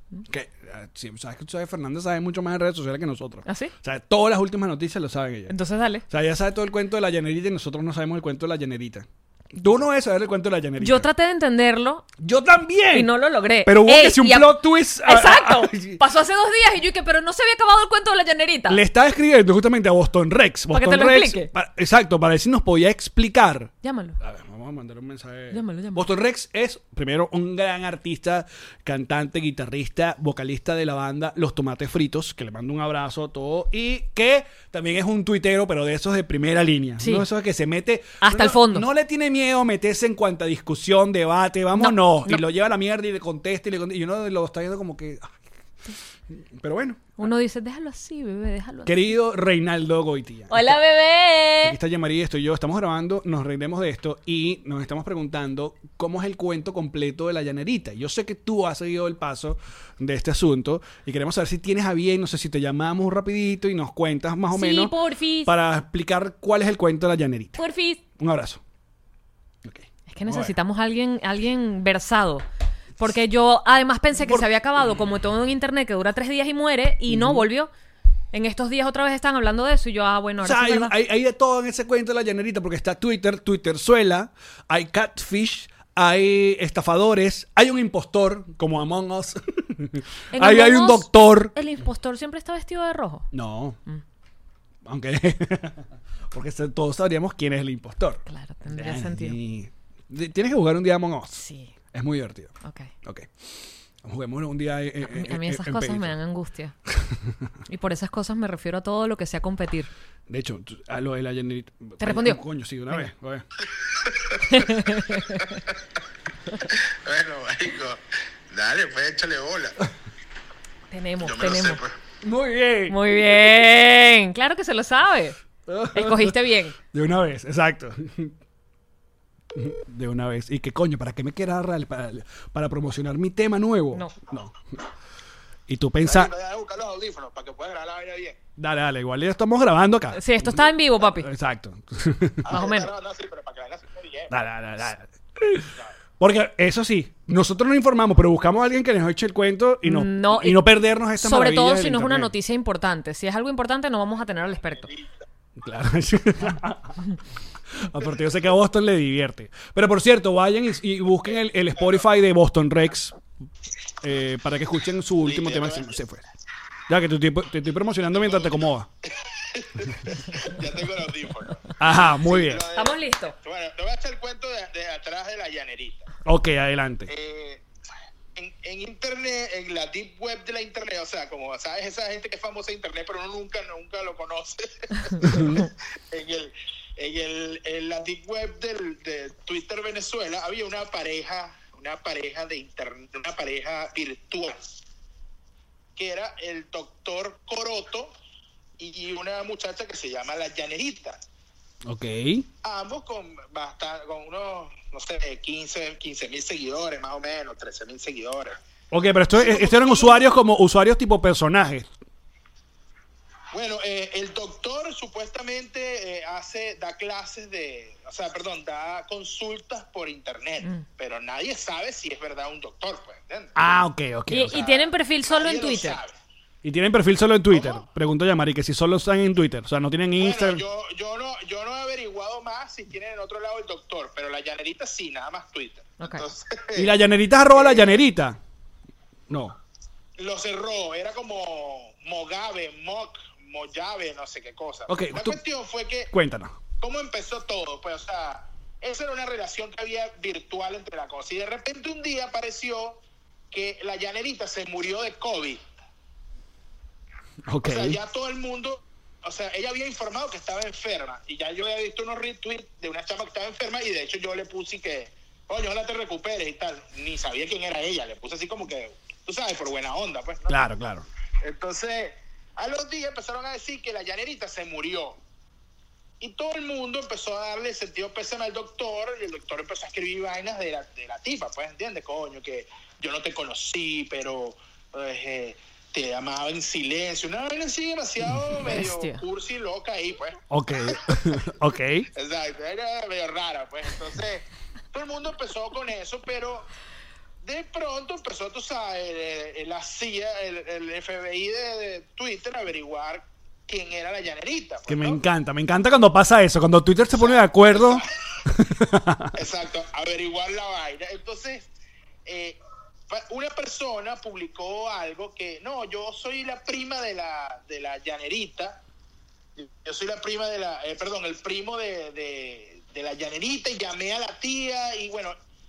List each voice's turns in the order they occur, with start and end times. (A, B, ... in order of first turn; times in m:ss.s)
0:00.3-0:05.6 A
0:03.5-0:03.7 B
0:05.5-0:06.0 B
0:06.1-0:11.1 A
0:10.8-0:12.1 B
0:12.2-0:13.1 A
0:12.9-0:18.8 B
0:13.6-0:16.0 A
0:18.7-0:45.3 A
0:20.7-0:21.5 B
0:23.8-0:24.2 B
0:25.5-0:26.1 B
0:37.0-0:37.3 B
0:38.2-0:38.9 B
0:41.8-0:42.4 B
0:46.3-0:47.3 A
0:47.2-0:49.1 B
0:48.9-0:50.8 A
0:50.5-0:51.8 B
0:51.6-1:07.6 A
1:04.5-1:05.5 B
1:07.6-1:08.0 B
1:08.2-1:08.6 A
1:09.6-1:10.5 A
1:10.1-1:12.4 B
1:13.0-1:17.7 B
1:17.1-1:17.5 A
1:18.3-1:20.9 B
1:20.4-1:31.5 A
1:30.3-1:33.3 B
1:33.3-1:33.8 A
1:34.8-1:43.3 A
1:38.3-1:39.4 B
1:41.4-1:41.7 B
1:42.6-1:42.9 B
1:44.0-1:46.2 A
1:45.0-1:46.8 B
1:46.9-1:47.4 A
1:47.7-1:49.9 B
1:50.3-1:53.5 A
1:52.0-1:52.4 B
1:54.0-1:54.5 C
1:54.5-1:55.6 B
1:56.7-1:59.8 C
2:00.9-2:01.8 B
2:01.2-2:01.9 C
2:02.2-2:03.5 A
2:02.9-2:05.4 B
2:05.7-2:06.4 A
2:05.9-2:06.8 B
2:06.9-2:08.3 A
2:09.5-2:14.6 A
2:15.7-2:16.3 A
2:16.0-2:18.4 C
2:18.6-2:22.6 A
2:20.1-2:21.3 B
2:22.4-2:24.4 C
2:22.5-2:22.9 B
2:24.3-2:32.3 A
2:29.8-2:30.6 B
2:31.2-2:34.9 B
2:35.6-2:37.0 A
2:37.8-2:43.2 A
2:44.0-2:46.3 A
2:45.2-2:45.9 C
2:46.9-2:48.9 A
2:48.1-2:56.1 C
2:51.8-2:52.6 A
2:52.7-2:53.4 B
2:56.2-2:57.1 A
2:57.1-2:57.7 C
2:58.4-3:14.6 C
3:05.2-3:05.7 A
3:16.0-3:18.1 C
3:18.8-3:21.2 C
3:21.9-3:22.5 A
3:22.6-3:28.6 C
3:28.9-3:31.9 A
3:29.3-3:30.4 C
3:33.5-3:43.6 C
3:43.6-3:44.6 A
3:44.3-3:46.0 B
3:44.5-3:46.1 C
3:46.6-3:50.6 A
3:47.5-3:47.8 C
3:50.2-3:56.9 C
3:56.0-3:56.3 B
3:56.8-3:58.4 A
3:57.5-3:58.0 C
3:59.3-3:59.6 A
4:00.2-4:06.1 C
4:04.9-4:05.4 A
4:06.1-4:06.6 A
4:06.8-4:15.6 C
4:17.5-4:18.0 A
4:17.6-4:30.6 C
4:30.5-4:31.1 A
4:31.4-4:35.2 C
4:36.2-4:51.4 C
4:48.7-4:49.2 B
4:50.5-4:52.1 A
4:52.2-4:56.7 C
4:57.4-5:05.2 C
5:04.9-5:09.4 A
5:07.1-5:08.1 C
5:09.3-5:11.7 C
5:12.2-5:12.6 C
5:13.1-5:18.8 C
5:19.6-5:25.4 C